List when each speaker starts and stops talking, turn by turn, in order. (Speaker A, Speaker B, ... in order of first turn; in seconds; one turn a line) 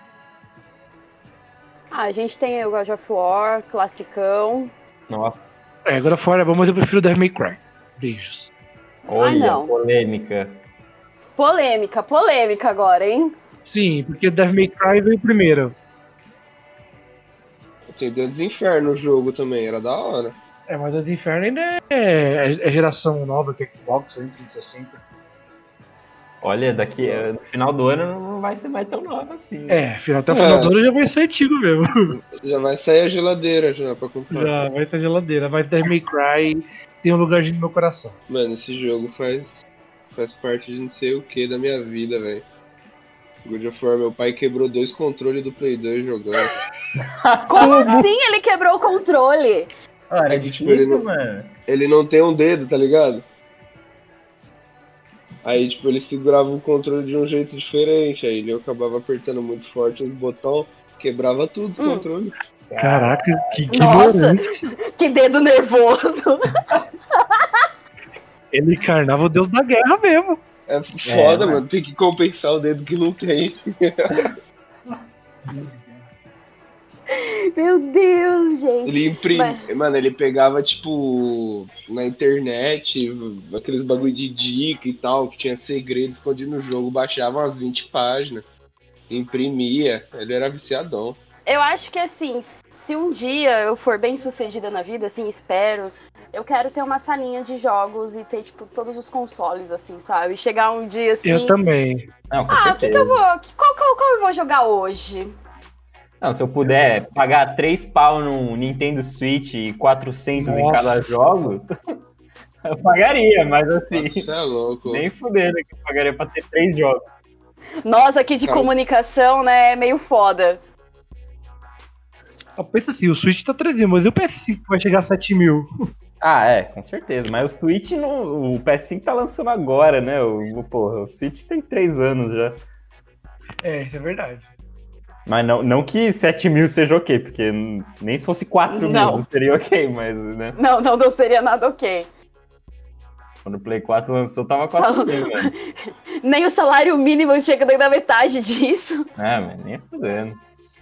Speaker A: 1.9-4.7
Speaker B: 5.1-5.5
Speaker C: 5.9-8.5
Speaker B: 9.1-10.6
Speaker A: 9.1-9.7
Speaker A: 11.4-13.4
Speaker C: 13.7-15.8
Speaker D: 17.9-20.4
Speaker C: 20.7-25.0
Speaker B: 26.4-29.8
Speaker D: 27.0-27.3
Speaker C: 29.7-32.2
Speaker D: 30.3-30.7
Speaker D: 32.1-34.6
Speaker C: 34.3-38.2
Speaker D: 38.3-42.5
Speaker D: 43.5-46.5
Speaker B: 47.0-48.1
Speaker A: 47.5-49.7
Speaker C: 47.6-48.0
Speaker B: 50.1-51.5
Speaker D: 50.3-51.0
Speaker D: 51.7-53.2
Speaker D: 55.4-62.3
Speaker A: 61.8-62.1
Speaker B: 62.7-64.0
Speaker C: 62.8-64.7
Speaker A: 63.7-66.6
Speaker A: 67.2-67.7
Speaker C: 68.5-70.4
Speaker D: 70.7-74.3
Speaker B: 71.0-71.6
Speaker C: 75.5-76.0
Speaker A: 77.1-79.6
Speaker D: 78.9-88.5
Speaker D: 89.1-91.2
Speaker A: 91.5-101.6
Speaker C: 101.2-102.1
Speaker B: 102.3-103.2
Speaker A: 102.5-105.3
Speaker B: 106.2-111.7
Speaker C: 110.4-111.5
Speaker B: 112.6-114.3
Speaker D: 113.9-115.1
Speaker B: 114.9-117.0
Speaker A: 117.8-120.6
Speaker D: 118.5-118.7
Speaker C: 122.6-125.7
Speaker B: 126.2-132.6
Speaker C: 133.6-134.5
Speaker B: 135.3-140.6
Speaker A: 138.7-139.3
Speaker A: 140.6-142.1
Speaker B: 143.4-145.5
Speaker A: 144.7-145.6
Speaker A: 146.2-149.1
Speaker B: 149.2-150.4